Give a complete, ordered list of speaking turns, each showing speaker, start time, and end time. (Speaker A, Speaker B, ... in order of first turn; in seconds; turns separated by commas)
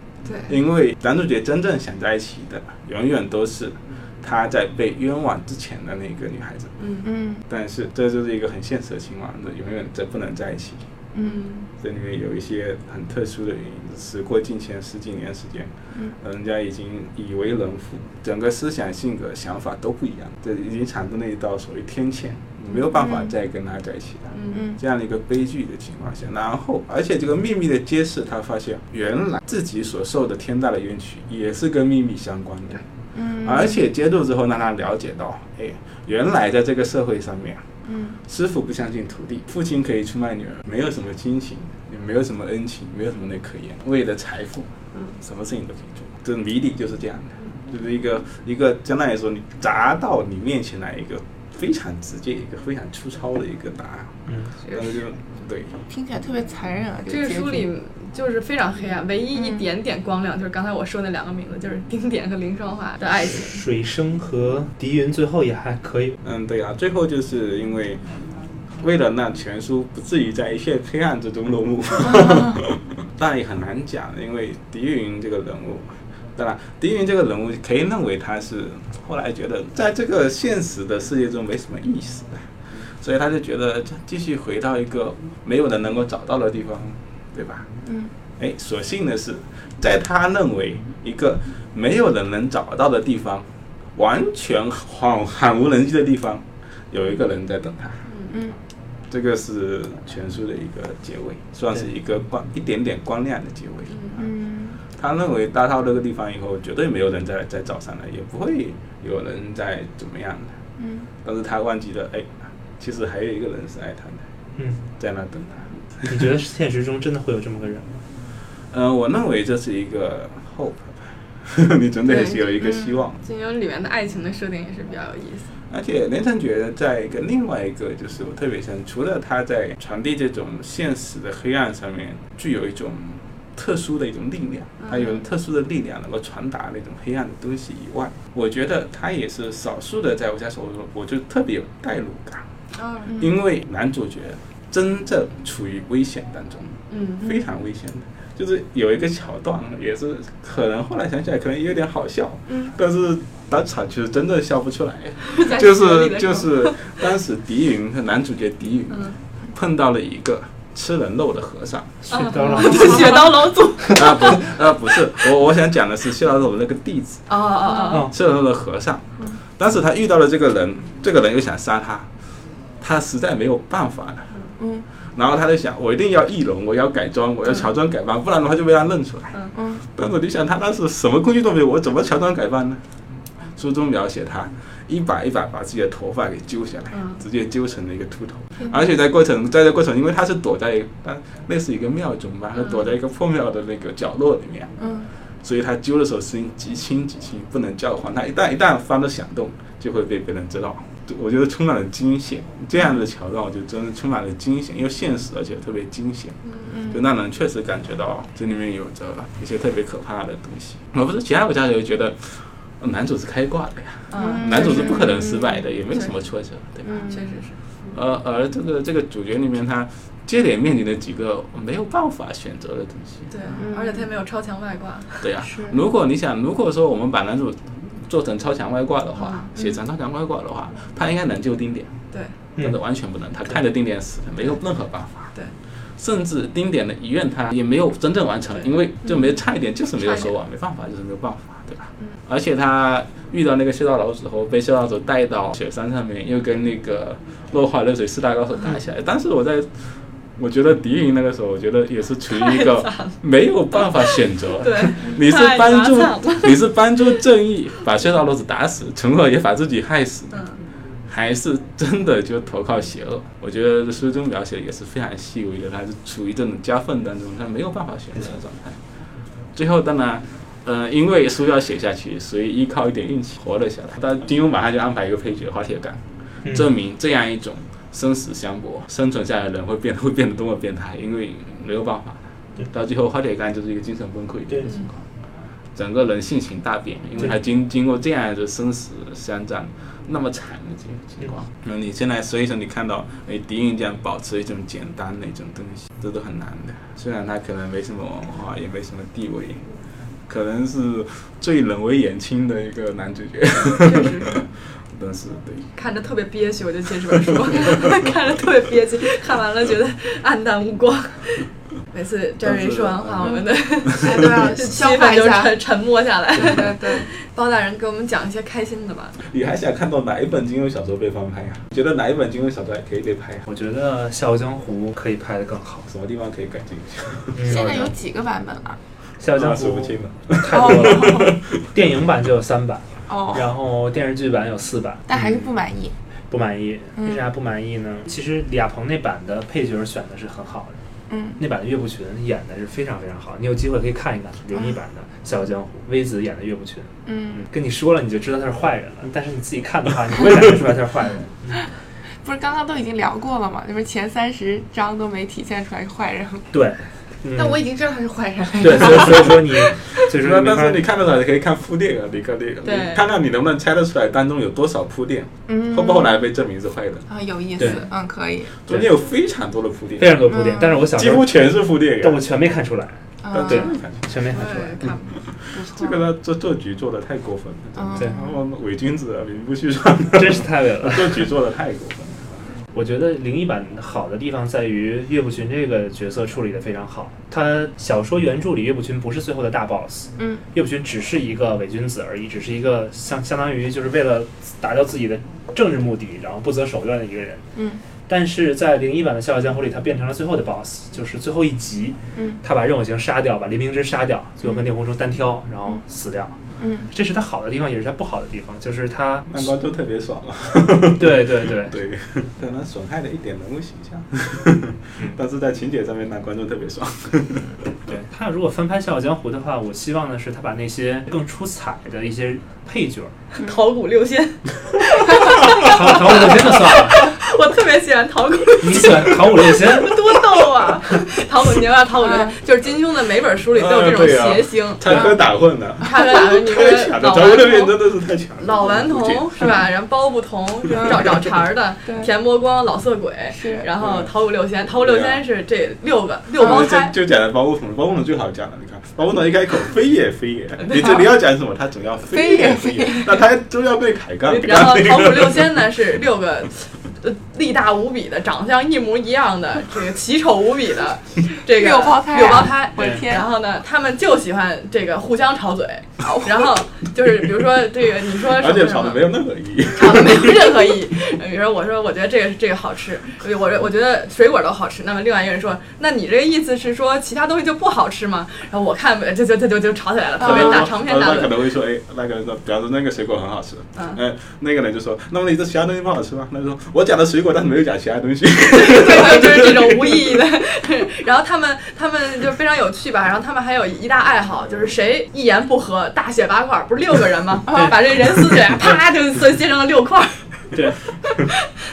Speaker A: 0.2-0.6, Speaker B: 0.5-6.7, Speaker A: 6.8-7.1, Speaker C: 7.0-7.4, Speaker B: 7.5-10.8, Speaker C: 11.1-11.4, Speaker A: 11.2-11.7, Speaker B: 11.8-32.8, Speaker C: 22.7-23.3, Speaker A: 24.3-24.7, Speaker C: 24.5-24.8, Speaker C: 33.1-33.8, Speaker B: 33.4-37.6, Speaker C: 37.9-38.2, Speaker B: 38.2-54.2, Speaker D: 54.3-54.5, Speaker A: 54.6-55.0, Speaker B: 54.7-55.8, Speaker C: 55.9-57.7, Speaker A: 57.1-63.6, Speaker C: 59.3-59.6, Speaker D: 63.3-66.2, Speaker B: 66.2-68.0, Speaker B: 68.8-82.5, Speaker B: 83.0-87.7, Speaker C: 87.8-88.1, Speaker B: 88.4-98.0, Speaker A: 98.1-98.4, Speaker C: 98.3-98.6, Speaker B: 99.1-104.2, Speaker A: 103.9-104.2, Speaker C: 104.2-104.8, Speaker B: 104.9-110.5, Speaker C: 110.8-111.1, Speaker B: 111.2-114.2, Speaker D: 114.6-114.8, Speaker B: 115.0-116.1, Speaker D: 116.0-118.0, Speaker B: 118.7-123.2, Speaker A: 122.0-125.5, Speaker C: 122.6-123.0, Speaker B: 125.7-142.4, Speaker A: 134.8-135.2, Speaker A: 142.7-143.2, Speaker C: 143.1-143.4, Speaker B: 143.2-162.1, Speaker A: 146.9-147.4, Speaker A: 155.3-156.9, Speaker A: 158.9-159.2, Speaker D: 162.0-163.3, Speaker A: 162.1-164.6, Speaker C: 162.6-162.9, Speaker B: 163.9-167.3, Speaker A: 167.3-168.1, Speaker B: 168.0-172.1, Speaker B: 172.8-174.3, Speaker C: 174.6-174.8, Speaker B: 175.1-179.4, Speaker A: 177.4-177.7, Speaker C: 179.5-179.8, Speaker B: 179.9-182.8, Speaker B: 183.6-194.7, Speaker A: 186.9-187.2, Speaker A: 192.5-192.9, Speaker C: 194.8-195.1, Speaker B: 195.4-206.4, Speaker A: 206.4-206.7, Speaker C: 206.7-207.1, Speaker B: 206.9-217.0, Speaker A: 214.1-215.2, Speaker C: 214.2-215.6, Speaker C: 216.8-217.3, Speaker A: 217.1-217.6, Speaker B: 217.9-223.6, Speaker A: 223.3-225.4, Speaker C: 223.6-224.1, Speaker B: 225.2-232.0, Speaker C: 225.4-225.8, Speaker A: 229.2-229.5, Speaker B: 232.6-235.3, Speaker B: 236.0-260.5, Speaker A: 238.5-239.4, Speaker A: 240.0-240.3, Speaker A: 252.3-253.2, Speaker A: 253.7-256.6, Speaker A: 260.3-260.6, Speaker B: 261.1-268.8, Speaker B: 269.5-285.0, Speaker D: 276.4-276.7, Speaker D: 284.5-284.8, Speaker B: 285.7-299.6, Speaker B: 300.3-305.7, Speaker A: 303.6-304.4, Speaker A: 305.8-319.2, Speaker B: 307.3-307.9, Speaker B: 312.4-314.2, Speaker C: 313.2-315.6, Speaker C: 316.3-317.1, Speaker B: 319.2-323.4, Speaker D: 323.5-325.9, Speaker B: 325.9-327.9, Speaker D: 327.3-327.9, Speaker C: 327.4-328.8, Speaker D: 329.2-335.4, Speaker B: 329.3-331.7, Speaker C: 330.5-331.4, Speaker C: 333.1-333.5, Speaker C: 335.1-335.9, Speaker D: 336.3-340.8, Speaker C: 336.9-337.3, Speaker C: 341.1-341.4, Speaker D: 341.4-351.6, Speaker C: 347.0-347.5, Speaker C: 352.2-356.5, Speaker D: 356.5-357.6, Speaker C: 357.3-359.7, Speaker D: 358.6-360.8, Speaker B: 358.8-359.2, Speaker B: 360.0-367.1, Speaker A: 362.6-363.1, Speaker C: 365.5-366.2, Speaker C: 367.1-368.5, Speaker D: 367.6-367.9, Speaker B: 368.6-370.4, Speaker D: 370.0-371.4, Speaker C: 370.3-370.9, Speaker B: 370.9-372.2, Speaker D: 372.0-374.9, Speaker C: 373.2-373.8, Speaker B: 373.3-382.4, Speaker A: 374.3-375.1, Speaker C: 375.5-376.1, Speaker C: 377.8-378.4, Speaker D: 378.0-378.2, Speaker D: 380.1-381.3, Speaker D: 382.7-397.4, Speaker C: 390.2-390.4, Speaker C: 397.5-397.8, Speaker D: 398.1-406.4, Speaker C: 402.1-402.4, Speaker C: 406.6-406.9, Speaker D: 406.9-409.5, Speaker B: 409.3-417.6, Speaker D: 410.9-411.8, Speaker D: 417.9-423.1, Speaker A: 423.4-435.2, Speaker D: 425.6-427.1, Speaker D: 428.6-430.0, Speaker C: 432.0-432.4, Speaker B: 433.5-439.5, Speaker C: 434.9-435.2, Speaker A: 435.8-437.8, Speaker A: 438.4-446.9, Speaker C: 440.7-441.0, Speaker B: 440.8-441.1, Speaker C: 443.3-443.7, Speaker B: 443.8-444.1, Speaker B: 444.7-445.2, Speaker B: 446.4-455.7, Speaker A: 450.6-451.1, Speaker C: 452.1-453.2, Speaker A: 454.3-469.1, Speaker C: 461.5-463.3, Speaker D: 462.8-463.0, Speaker C: 466.0-466.5, Speaker B: 468.3-470.6, Speaker A: 469.7-481.5, Speaker C: 480.2-480.6, Speaker B: 480.2-490.2, Speaker A: 483.7-484.0, Speaker A: 488.5-500.4, Speaker C: 497.5-497.7, Speaker D: 497.5-497.8, Speaker D: 500.5-500.8, Speaker A: 501.1-501.3